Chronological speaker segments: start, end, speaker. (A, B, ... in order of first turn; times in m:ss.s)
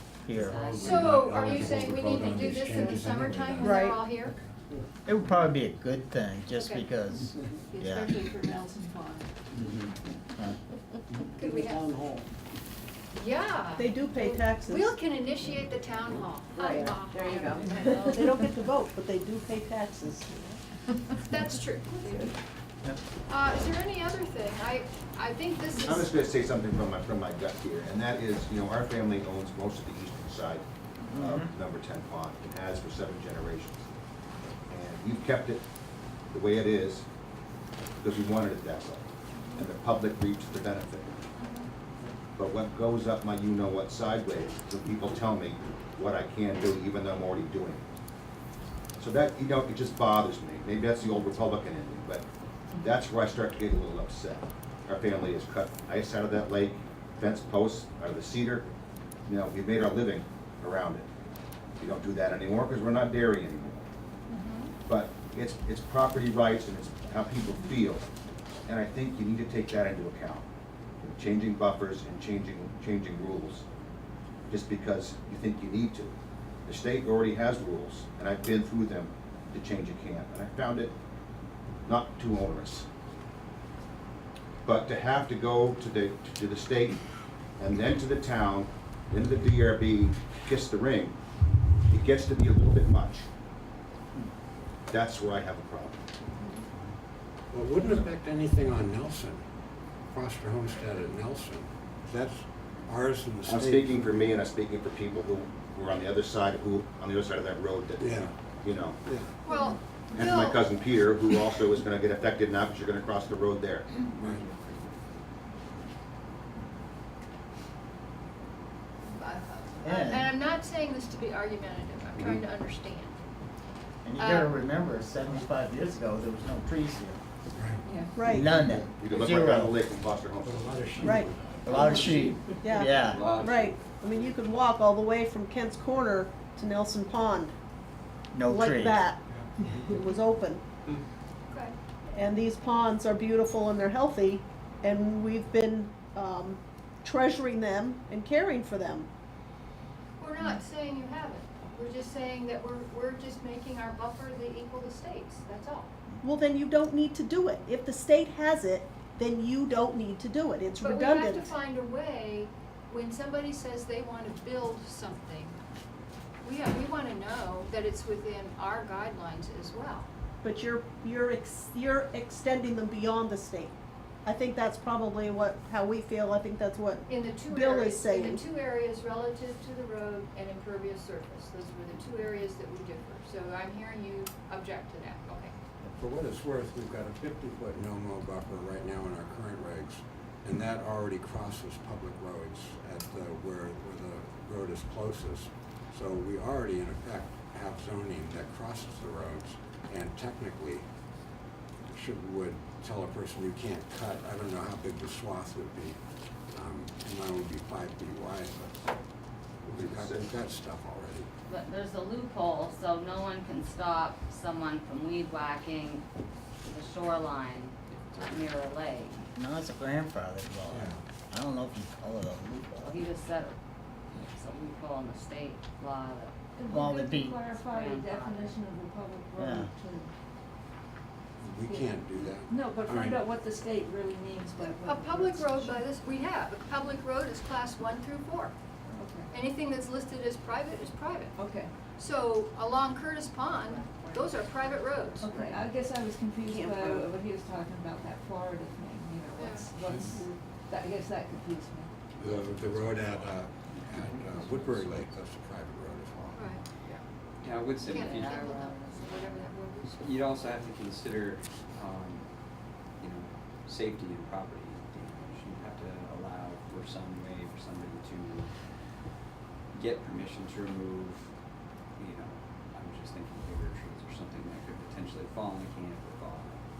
0:00.2-0:00.7 A
0:00.3-0:01.3 B
0:00.5-0:04.3 C
0:00.8-0:04.4 D
0:03.6-0:04.0 E
0:05.0-0:08.1 A
0:06.5-0:09.3 D
0:09.6-0:10.6 A
0:11.4-0:12.0 D
0:13.1-0:18.4 D
0:13.8-0:15.0 E
0:16.6-0:20.3 E
0:21.2-0:22.3 D
0:22.0-0:22.3 F
0:23.3-0:26.2 D
0:25.8-0:33.8 G
0:31.1-0:31.5 A
0:34.7-0:35.6 G
0:36.3-0:37.0 G
0:38.0-0:41.2 G
0:41.4-0:41.7 D
0:42.4-0:47.9 G
0:49.0-0:58.6 G
0:59.3-1:01.1 G
1:01.8-1:03.8 G
1:04.3-1:04.7 D
1:04.8-1:08.0 G
1:08.6-1:10.4 G
1:11.1-1:13.6 G
1:14.5-1:16.1 G
1:16.6-1:20.9 G
1:21.8-1:22.8 G
1:24.6-1:27.0 G
1:27.6-1:31.2 G
1:31.9-1:33.2 G
1:34.9-1:36.0 G
1:37.5-1:39.4 C
1:40.1-1:44.3 C
1:43.4-1:49.0 G
1:48.0-1:48.3 C
1:49.0-1:49.3 C
1:49.4-1:51.5 D
1:50.1-1:54.1 G
1:54.2-1:54.4 C
1:59.0-2:03.2 D
1:59.8-2:00.3 A
2:04.0-2:07.2 A
2:04.2-2:04.5 D
2:07.6-2:07.8 C
2:07.8-2:08.2 F
2:08.2-2:08.5 E
2:08.3-2:09.8 A
2:08.6-2:10.9 G
2:10.5-2:11.6 C
2:11.0-2:11.4 E
2:11.6-2:13.2 A
2:11.7-2:12.2 F
2:12.6-2:17.5 E
2:13.0-2:13.7 H
2:18.3-2:19.0 A
2:18.4-2:20.6 E
2:21.5-2:21.7 D
2:22.1-2:29.1 E
2:30.2-2:35.9 D
2:36.2-2:41.5 E
2:40.8-2:45.6 D
2:46.4-2:50.1 D
2:50.4-2:53.7 E
2:54.2-2:58.4 E
2:57.1-3:05.5 D
3:06.0-3:20.8 C
3:21.9-3:26.0 C
3:26.5-3:28.8 C
3:29.6-3:31.3 C
3:29.7-3:30.3 G
3:31.5-3:36.0 B
3:36.6-3:39.3 B
3:39.3-3:43.0 A
3:40.7-3:41.0 C
3:42.8-3:43.6 B
3:44.1-3:46.3 B
3:46.6-3:50.1 F
3:46.7-3:47.4 A
3:47.6-3:48.6 B
3:49.4-3:49.7 A
3:51.4-3:53.2 C
3:51.6-3:55.8 F
3:54.8-3:58.5 D
3:58.9-3:59.3 F
3:59.3-4:01.4 D
4:01.4-4:01.7 F
4:01.9-4:05.2 D
4:05.2-4:11.9 F
4:05.3-4:05.5 E
4:06.4-4:07.1 E
4:09.3-4:09.7 D
4:12.2-4:16.6 C
4:12.7-4:15.0 H
4:16.3-4:17.0 D
4:17.4-4:18.3 H
4:17.8-4:20.0 D
4:17.9-4:19.5 B
4:20.0-4:22.3 H
4:23.0-4:28.5 H
4:29.7-4:31.3 H
4:32.0-4:36.6 H